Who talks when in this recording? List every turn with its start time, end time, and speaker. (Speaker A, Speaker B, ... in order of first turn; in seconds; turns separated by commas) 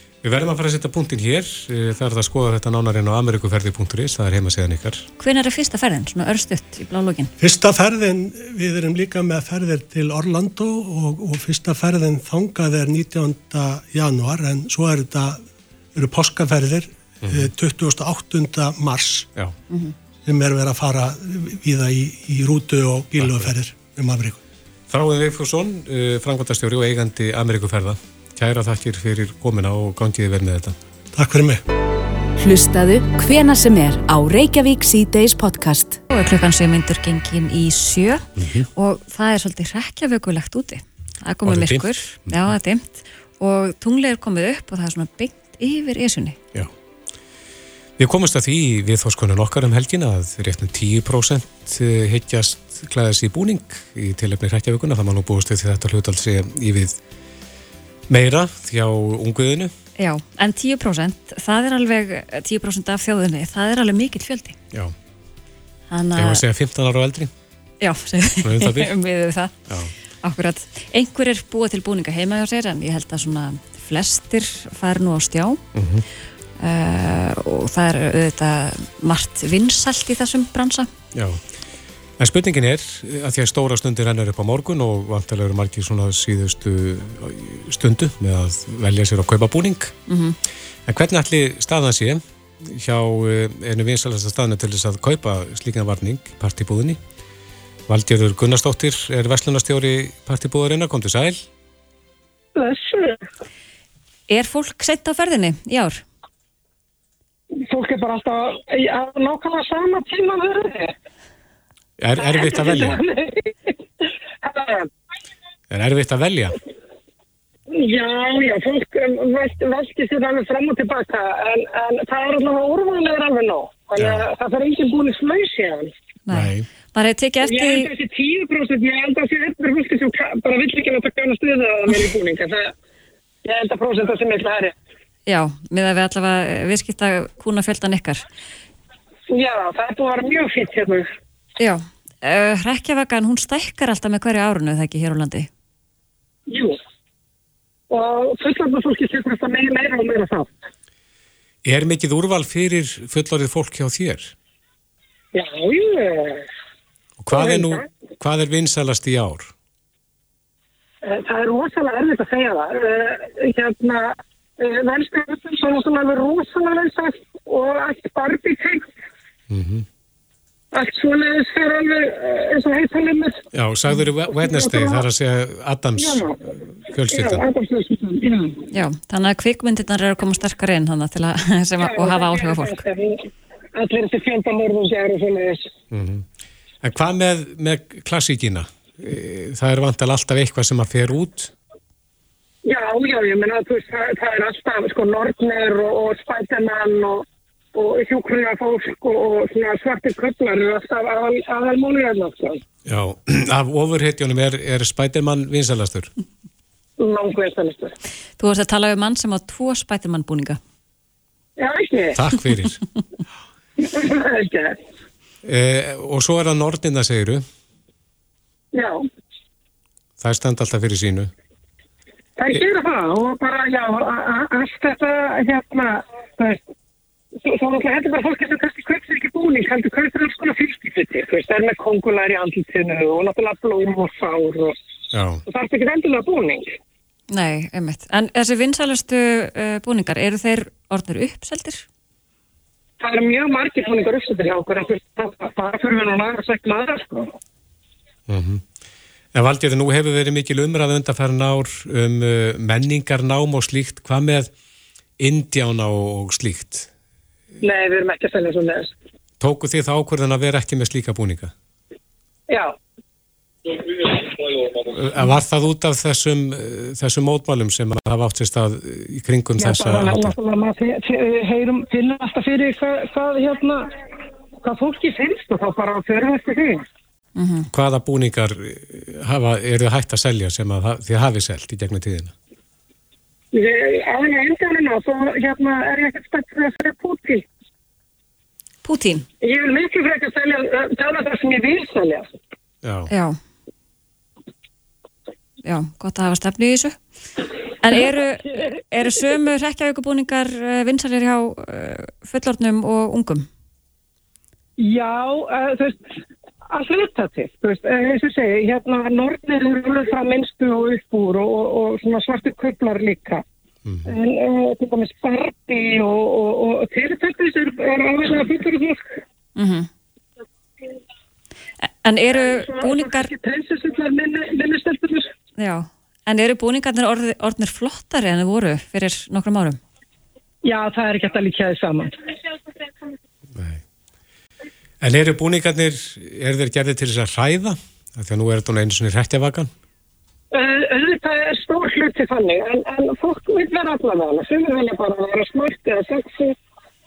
Speaker A: 0.2-5.1, Speaker B: 5.2-7.3, Speaker C: 7.4-15.4, Speaker C: 15.9-19.3, Speaker A: 17.2-17.5, Speaker B: 19.7-19.9, Speaker C: 20.2-24.4, Speaker A: 23.2-23.5, Speaker A: 24.9-30.8, Speaker C: 31.1-31.6, Speaker D: 32.4-36.0, Speaker B: 36.1-46.4, Speaker A: 38.4-38.7, Speaker A: 41.5-42.5, Speaker A: 48.0-57.0, Speaker A: 58.1-59.7, Speaker B: 60.0-64.6, Speaker B: 65.9-66.4, Speaker A: 66.2-67.3, Speaker B: 67.8-69.5, Speaker A: 68.4-68.9, Speaker A: 69.7-69.9, Speaker B: 70.2-75.6, Speaker A: 75.8-76.0, Speaker B: 76.6-80.9, Speaker A: 81.1-81.4, Speaker A: 82.2-89.9, Speaker B: 90.1-90.4, Speaker A: 90.9-97.0, Speaker A: 97.9-101.5, Speaker E: 102.5-103.3, Speaker B: 104.3-106.0, Speaker E: 107.5-111.0, Speaker A: 112.0-113.0, Speaker E: 112.2-114.9, Speaker A: 115.7-116.6, Speaker E: 117.7-125.9, Speaker A: 124.0-124.3, Speaker B: 126.3-127.9, Speaker A: 126.3-126.7, Speaker E: 127.4-132.7, Speaker E: 133.4-134.7, Speaker B: 135.3-138.2, Speaker E: 139.3-141.1, Speaker B: 141.6-145.5, Speaker E: 146.5-146.8, Speaker E: 147.9-150.5, Speaker A: 151.6-154.3, Speaker E: 155.3-156.5, Speaker A: 157.2-159.5, Speaker E: 157.3-157.8, Speaker E: 161.0-168.9, Speaker A: 169.5-169.9, Speaker E: 170.7-173.4, Speaker A: 173.5-177.5, Speaker E: 174.3-175.1, Speaker E: 176.0-176.4, Speaker E: 177.1-178.7, Speaker B: 178.7-182.8, Speaker E: 181.8-185.7, Speaker A: 185.9-186.3, Speaker A: 186.8-191.5, Speaker E: 192.7-202.6, Speaker A: 202.8-206.1, Speaker E: 207.0-207.9, Speaker B: 208.4-210.6, Speaker E: 211.6-212.2, Speaker A: 212.2-212.8, Speaker E: 213.8-214.8, Speaker A: 215.4-217.4, Speaker E: 218.7-219.1, Speaker A: 220.2-221.3, Speaker E: 222.4-226.6, Speaker E: 227.4-234.8, Speaker A: 235.1-235.4, Speaker E: 235.5-236.8, Speaker B: 237.3-241.8, Speaker E: 243.0-247.3, Speaker A: 248.3-248.6, Speaker A: 249.3-254.5, Speaker A: 255.2-256.9, Speaker E: 257.6-259.0, Speaker A: 259.4-261.5, Speaker E: 262.5-262.8, Speaker A: 264.9-270.4, Speaker E: 269.6-273.9, Speaker E: 274.6-276.9, Speaker B: 277.4-277.7, Speaker A: 277.7-282.3, Speaker E: 283.5-287.5, Speaker B: 288.9-289.3, Speaker E: 289.4-292.3, Speaker A: 292.8-293.1, Speaker B: 293.1-293.4, Speaker B: 295.6-297.0, Speaker B: 297.8-303.5, Speaker E: 304.8-313.4, Speaker A: 313.9-314.1, Speaker E: 314.1-319.2, Speaker B: 319.6-319.9, Speaker B: 322.0-323.3, Speaker E: 322.4-325.3, Speaker B: 325.6-329.8, Speaker E: 330.6-332.1, Speaker A: 333.5-333.8, Speaker A: 335.0-339.7, Speaker E: 340.5-346.6